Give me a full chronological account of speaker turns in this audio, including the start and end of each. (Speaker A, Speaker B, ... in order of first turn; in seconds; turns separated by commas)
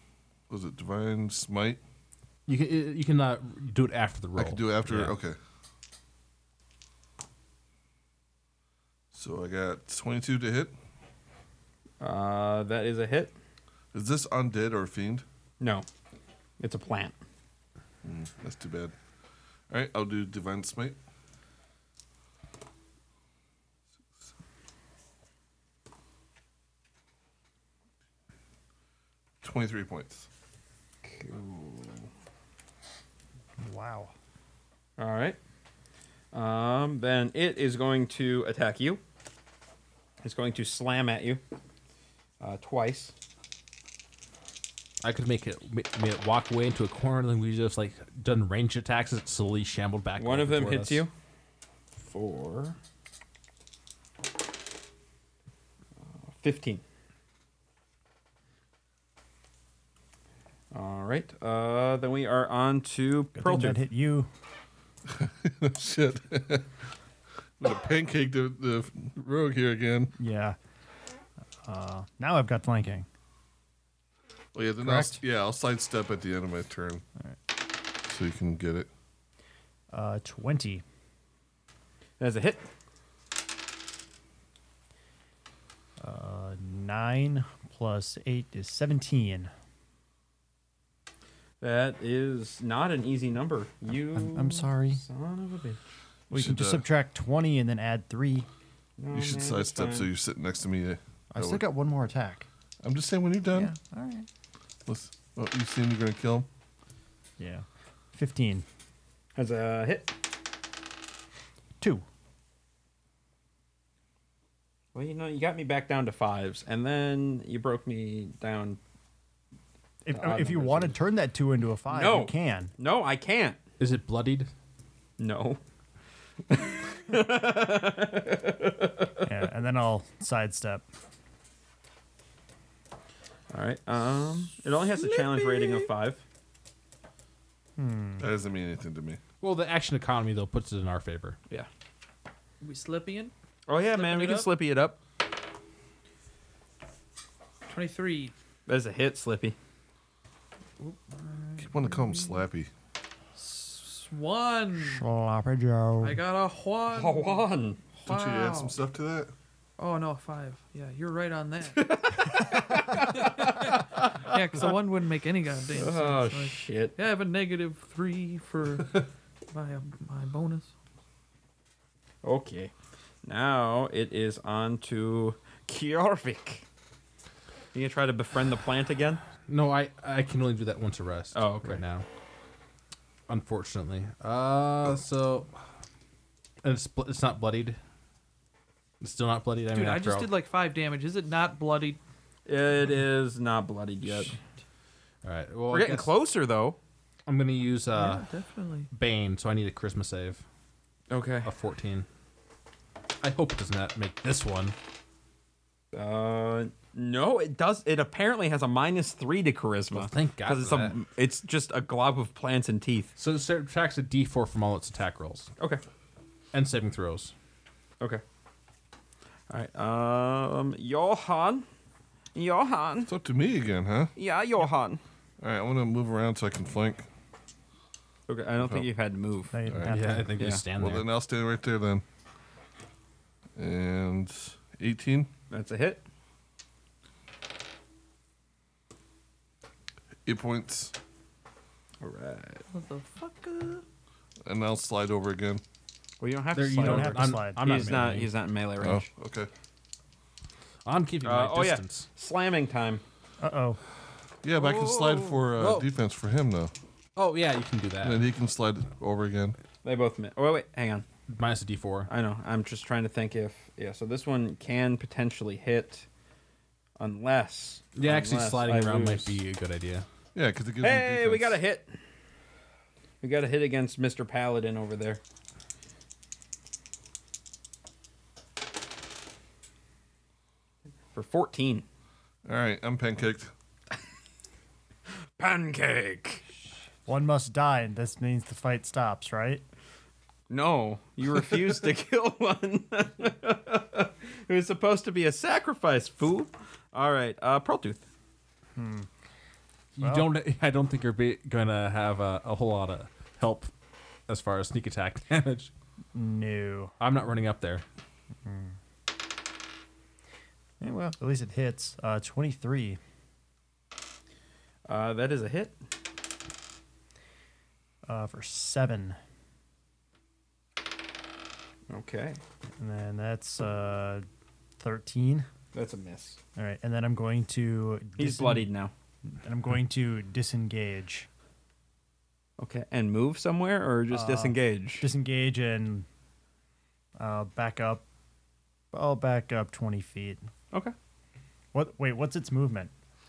Speaker A: 0.5-1.8, Speaker B: 2.5-5.2, Speaker A: 4.4-5.4, Speaker A: 9.1-10.7, Speaker C: 12.0-13.3, Speaker A: 13.9-15.2, Speaker C: 15.6-15.9, Speaker C: 16.6-17.2, Speaker A: 18.0-18.9, Speaker A: 19.7-21.0, Speaker A: 29.4-30.3, Speaker C: 31.1-32.1, Speaker D: 33.6-34.1, Speaker C: 35.0-35.4, Speaker C: 36.3-39.0, Speaker C: 40.2-41.4, Speaker C: 42.4-43.1, Speaker B: 45.0-51.0, Speaker C: 50.2-51.1, Speaker C: 52.0-52.8, Speaker C: 56.2-56.8, Speaker C: 60.7-63.8, Speaker D: 63.3-64.3, Speaker A: 65.1-66.7, Speaker A: 67.6-70.1, Speaker D: 70.2-70.6, Speaker D: 71.6-73.1, Speaker A: 74.5-77.0, Speaker D: 74.8-75.2, Speaker A: 78.1-78.9, Speaker D: 79.9-80.8, Speaker C: 82.2-82.7, Speaker D: 86.0-89.5, Speaker C: 91.6-95.8, Speaker D: 94.1-95.0, Speaker A: 96.3-96.8, Speaker D: 96.3-98.5, Speaker C: 99.0-100.1, Speaker A: 99.1-101.6, Speaker D: 101.3-102.5, Speaker A: 102.8-103.7, Speaker D: 103.5-104.3, Speaker A: 104.9-106.5, Speaker D: 107.4-108.7, Speaker C: 109.4-110.1, Speaker D: 111.8-112.0, Speaker C: 114.9-118.8, Speaker D: 120.0-122.7, Speaker C: 120.1-121.0, Speaker C: 121.9-123.6, Speaker B: 123.8-124.5, Speaker C: 125.2-125.6, Speaker C: 126.5-129.3, Speaker D: 129.2-130.8, Speaker C: 133.5-136.2, Speaker E: 134.9-135.9, Speaker D: 137.8-138.3, Speaker A: 138.2-139.2, Speaker B: 139.4-141.4, Speaker E: 142.6-144.5, Speaker C: 143.7-145.0, Speaker E: 147.7-148.3, Speaker C: 148.7-149.6, Speaker E: 150.8-152.4, Speaker A: 151.6-152.7, Speaker E: 153.4-155.1, Speaker D: 154.8-156.2, Speaker E: 156.0-158.8, Speaker C: 156.9-157.8, Speaker A: 158.1-159.3, Speaker E: 159.8-170.7, Speaker C: 161.7-164.4, Speaker C: 165.7-166.9, Speaker C: 172.2-172.7, Speaker C: 173.2-176.7, Speaker C: 177.7-179.2, Speaker B: 179.5-182.1, Speaker C: 181.3-181.8, Speaker B: 183.3-185.5, Speaker B: 186.6-187.8, Speaker B: 189.0-190.3, Speaker E: 189.7-192.0, Speaker C: 192.5-194.4, Speaker B: 195.2-196.1, Speaker C: 195.7-196.8, Speaker B: 197.3-198.3, Speaker E: 197.9-198.9, Speaker B: 198.9-200.4, Speaker C: 201.1-201.5, Speaker B: 201.4-202.1, Speaker B: 203.2-204.8, Speaker C: 205.9-213.1, Speaker B: 209.9-210.9, Speaker B: 213.2-215.5, Speaker B: 216.5-217.3, Speaker C: 219.5-221.7, Speaker C: 222.3-223.1, Speaker A: 223.1-224.1, Speaker C: 224.2-225.0, Speaker A: 225.4-227.1, Speaker C: 228.3-229.6, Speaker A: 228.6-228.9, Speaker D: 229.5-230.3, Speaker A: 229.7-229.9, Speaker B: 229.9-231.1, Speaker C: 230.4-230.6, Speaker A: 230.8-232.0, Speaker A: 233.6-235.3, Speaker C: 235.5-236.0, Speaker A: 240.2-240.9, Speaker C: 242.0-242.6, Speaker E: 242.7-243.8, Speaker A: 244.5-245.6, Speaker C: 246.2-249.1, Speaker B: 246.6-248.3, Speaker D: 246.7-248.0, Speaker A: 248.8-249.5, Speaker B: 250.8-252.1, Speaker C: 251.2-253.0, Speaker D: 253.4-253.8, Speaker A: 254.4-256.7, Speaker C: 254.6-255.4, Speaker B: 255.6-255.9, Speaker B: 257.2-258.2, Speaker A: 258.0-259.6, Speaker C: 259.8-261.1, Speaker B: 261.3-262.1, Speaker C: 262.1-266.1, Speaker C: 267.0-269.4, Speaker B: 267.9-270.1, Speaker A: 270.4-271.6, Speaker C: 270.8-272.0, Speaker C: 273.2-275.2, Speaker C: 281.1-281.9, Speaker A: 282.5-283.5, Speaker C: 285.4-286.4, Speaker D: 287.1-289.6, Speaker C: 290.5-298.0, Speaker D: 298.8-299.1, Speaker B: 299.9-303.7, Speaker D: 300.0-300.3, Speaker B: 304.3-305.7, Speaker D: 306.1-306.9, Speaker B: 307.0-307.8, Speaker D: 308.4-308.8, Speaker D: 310.8-313.0, Speaker C: 314.9-315.8, Speaker D: 318.1-319.2, Speaker C: 321.9-322.4, Speaker D: 322.8-324.3, Speaker D: 324.8-325.5, Speaker C: 325.7-326.4, Speaker D: 326.6-328.7, Speaker C: 328.2-328.9, Speaker D: 329.4-331.3, Speaker C: 332.6-335.1, Speaker D: 334.1-336.1, Speaker D: 337.2-338.0, Speaker D: 338.9-340.4, Speaker D: 341.7-342.9